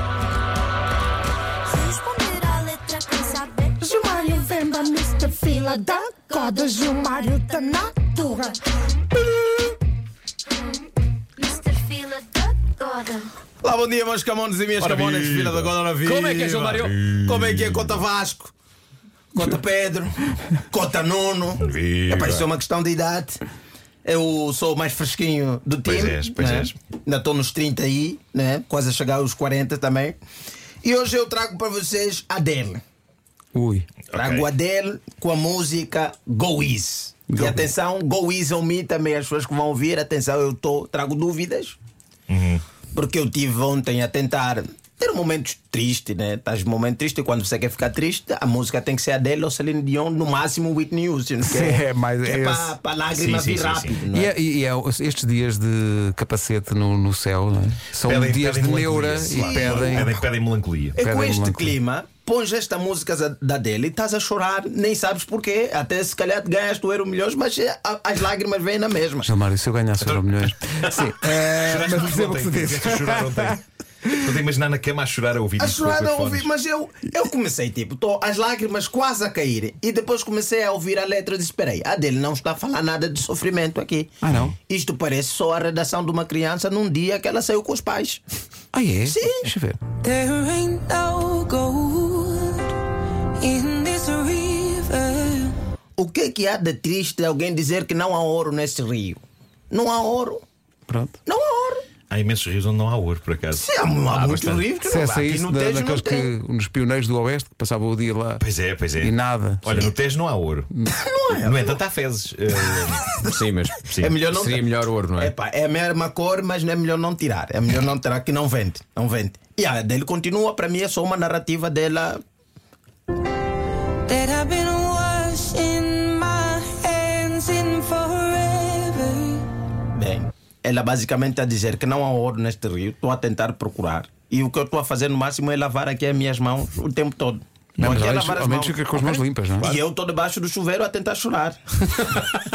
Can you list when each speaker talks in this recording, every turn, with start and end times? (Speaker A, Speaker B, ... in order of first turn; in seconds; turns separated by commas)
Speaker A: 1.7-8.5, Speaker B: 4.8-5.3, Speaker B: 6.1-7.0, Speaker C: 9.2-9.6, Speaker A: 11.4-13.3, Speaker C: 13.6-18.5, Speaker D: 14.8-15.8, Speaker E: 16.0-16.9, Speaker D: 16.7-18.0, Speaker C: 19.3-23.4, Speaker D: 21.6-22.5, Speaker C: 24.1-30.2, Speaker D: 25.9-26.8, Speaker C: 30.8-32.8, Speaker F: 33.5-33.9, Speaker D: 34.1-34.5, Speaker C: 34.1-41.8, Speaker F: 37.3-37.7, Speaker D: 42.3-42.6, Speaker C: 42.9-54.3, Speaker F: 51.4-52.7, Speaker D: 53.1-54.0, Speaker F: 54.1-60.1, Speaker D: 58.0-61.0, Speaker C: 59.3-60.2, Speaker C: 61.0-69.3, Speaker F: 61.0-61.8, Speaker F: 69.2-73.6, Speaker D: 70.0-76.5, Speaker C: 75.6-88.2, Speaker F: 84.2-84.5, Speaker F: 88.7-89.8, Speaker C: 89.1-89.5, Speaker B: 90.0-92.8, Speaker B: 93.4-95.6, Speaker C: 96.0-100.4, Speaker F: 100.9-101.2, Speaker C: 101.3-101.8, Speaker D: 102.1-103.7, Speaker C: 103.5-106.3, Speaker E: 104.1-104.6, Speaker F: 104.8-108.4, Speaker D: 108.4-110.7, Speaker F: 109.0-109.9, Speaker C: 110.9-111.8, Speaker D: 111.3-113.2, Speaker C: 113.1-113.3, Speaker E: 113.3-113.8, Speaker D: 113.8-114.2, Speaker C: 114.0-122.2, Speaker E: 114.3-115.3, Speaker B: 124.1-129.5, Speaker C: 129.9-142.2, Speaker F: 137.8-139.8